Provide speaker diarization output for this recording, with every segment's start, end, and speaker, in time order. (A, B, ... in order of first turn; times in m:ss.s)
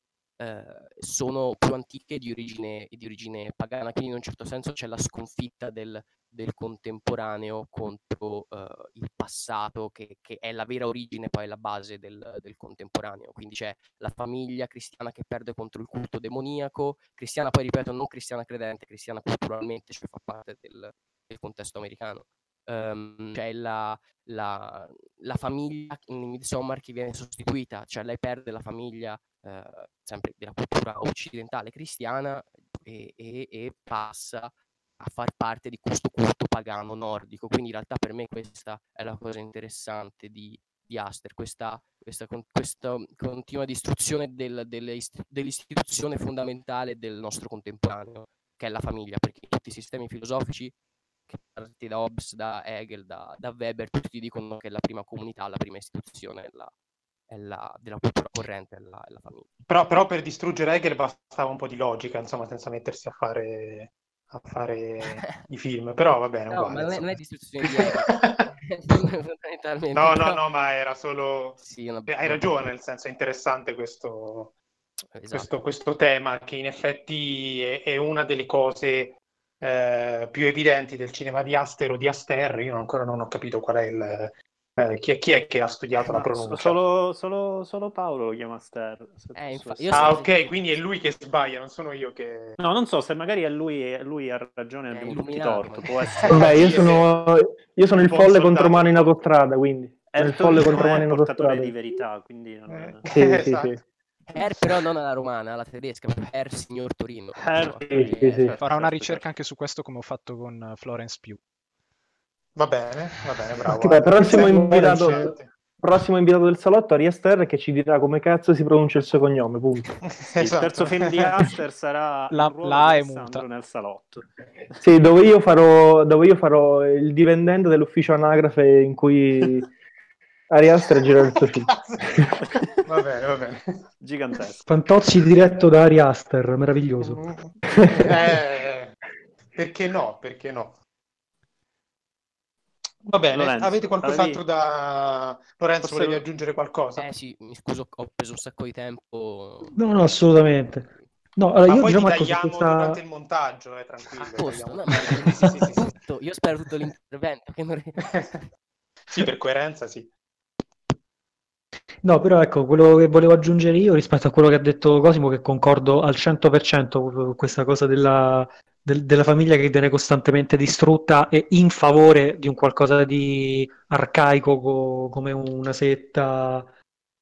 0:00.4-0:50.7 A
0:51.3-0:56.7 A
0:57.3-0:59.5 A
0:59.7-1:08.5 B
1:05.0-1:05.4 A
1:06.5-1:10.4 A
1:09.9-1:14.5 B
1:11.6-1:12.7 A
1:15.1-1:15.5 A
1:15.3-1:26.8 B
1:26.1-1:30.2 C
1:29.3-1:30.4 A
1:29.9-1:32.6 B
1:32.6-1:36.8 C
1:34.9-1:36.8 A
1:36.2-1:37.1 B
1:36.3-1:41.8 D
1:37.9-1:39.1 B
1:40.1-1:43.0 C
1:40.2-1:41.1 B
1:42.7-1:43.8 B
1:43.1-1:43.8 D
1:44.3-1:48.8 A
1:47.4-1:49.2 C
1:47.9-1:48.6 D
1:48.6-1:51.4 E
1:52.6-1:55.5 B
1:53.8-2:00.0 D
2:00.0-2:01.5 B
2:00.4-2:04.3 C
2:02.3-2:03.4 E
2:04.8-2:09.7 D
2:10.5-2:12.3 D
2:11.4-2:12.2 B
2:12.8-2:13.8 B
2:14.0-2:14.6 C
2:14.7-2:17.2 F
2:17.0-2:19.0 B
2:19.5-2:20.8 B
2:23.0-2:27.0 B
2:23.3-2:24.4 C
2:25.8-2:26.2 C
2:27.0-2:31.1 A
2:29.7-2:33.0 F
2:31.7-2:35.9 B
2:34.2-2:38.1 A
2:38.0-2:38.3 B
2:39.1-2:40.1 B
2:42.0-2:56.7 F